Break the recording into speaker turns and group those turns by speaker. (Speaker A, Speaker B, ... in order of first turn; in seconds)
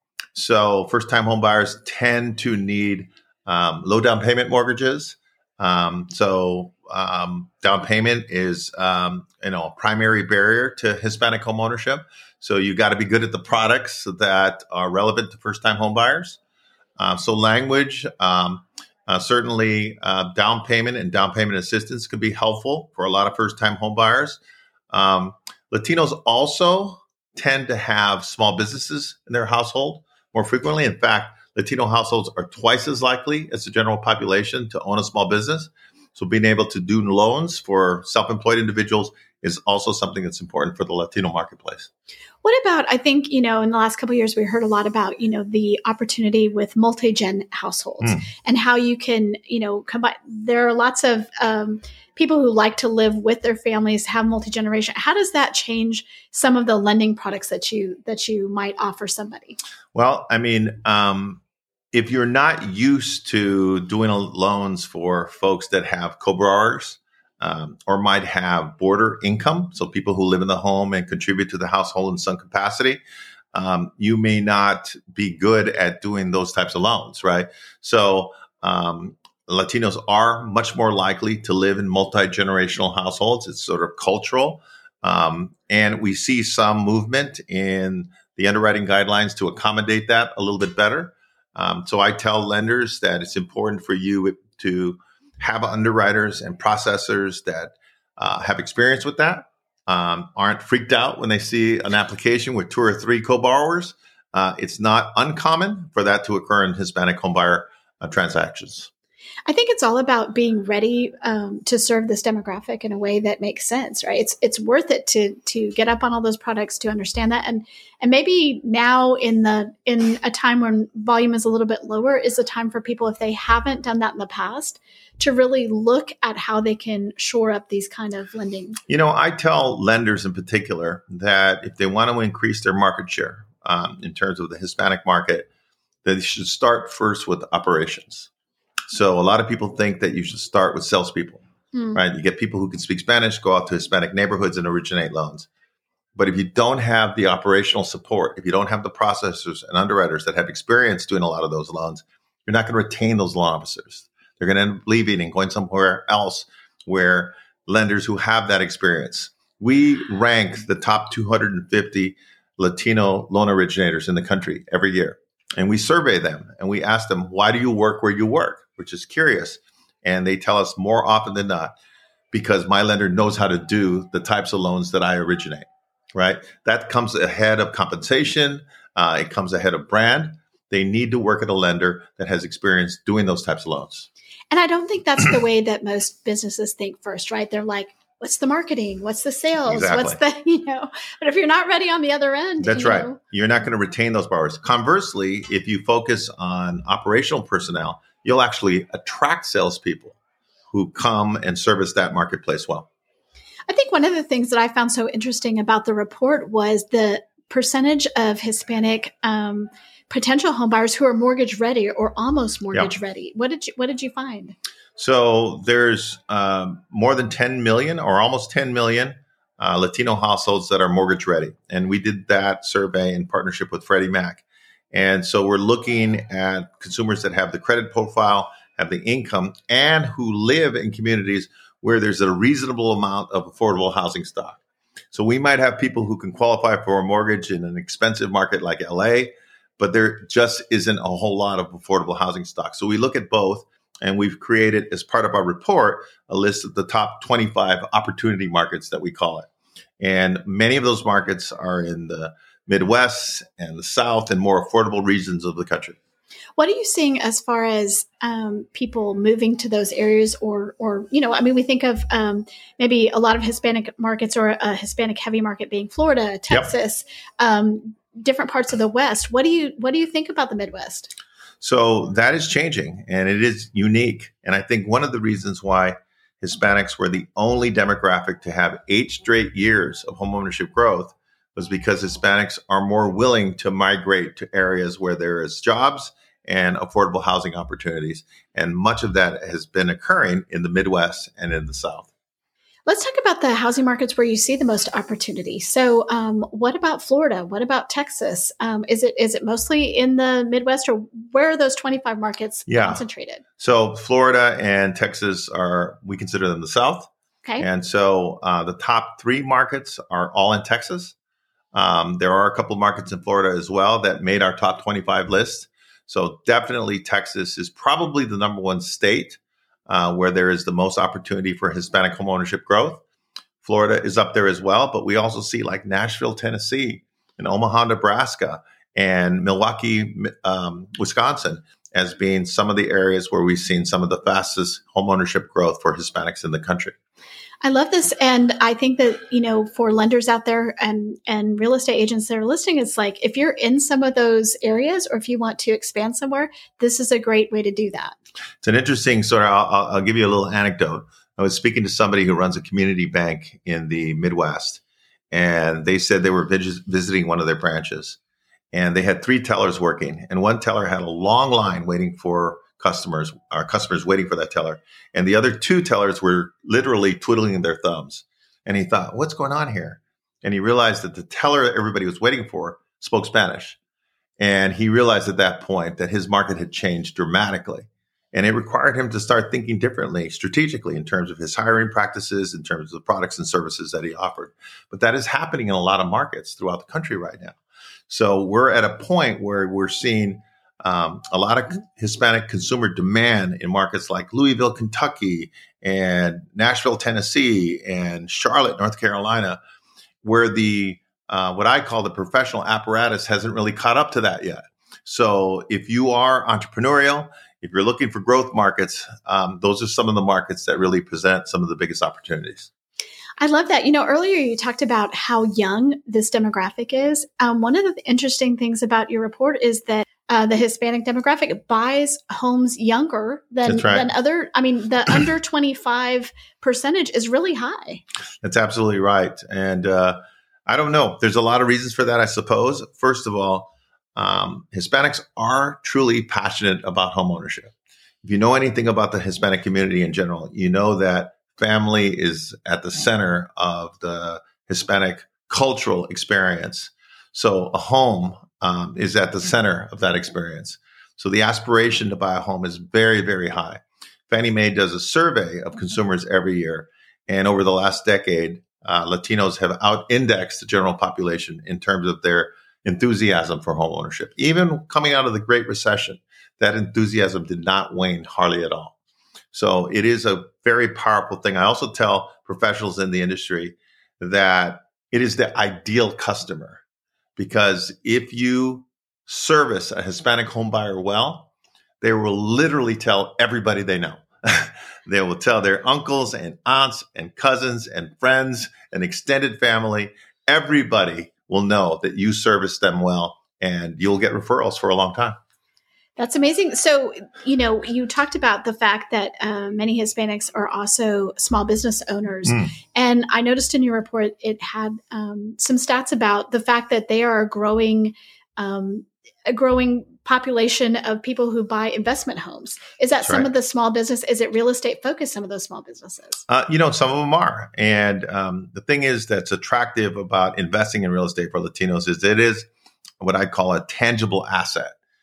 Speaker A: 0.3-16.4, 17.0-41.9, 59.9-61.4, 61.9-73.0, 73.5-108.9, 128.9-135.5, 136.0-138.3, 138.9-141.4, 141.9-145.5, 146.2-171.8, 172.3-184.1, 189.7-190.2, 192.6-200.2, 200.7-202.9, 215.0-234.6, 235.1-249.5, 250.0-256.0, 271.6-292.1, 302.7-303.0, 303.6-311.1, 311.7-323.0, 323.6-336.9, 348.6-354.8, 355.3-358.2, 358.7-373.8, 374.4-387.6, 388.1-399.6, 400.2-412.7, 423.6-424.1, 428.4-437.7, 438.2-468.9, 469.5-476.8, 477.4-481.5, 482.0-495.4, 502.5-502.7, 513.2-513.5, 516.5-522.7, 523.2-524.9
Speaker B: 42.4-59.6, 109.5-128.8, 141.7-142.0, 184.5-193.2, 203.7-214.6, 256.6-271.1, 292.9-303.4, 337.6-348.1, 413.4-428.0, 496.2-516.4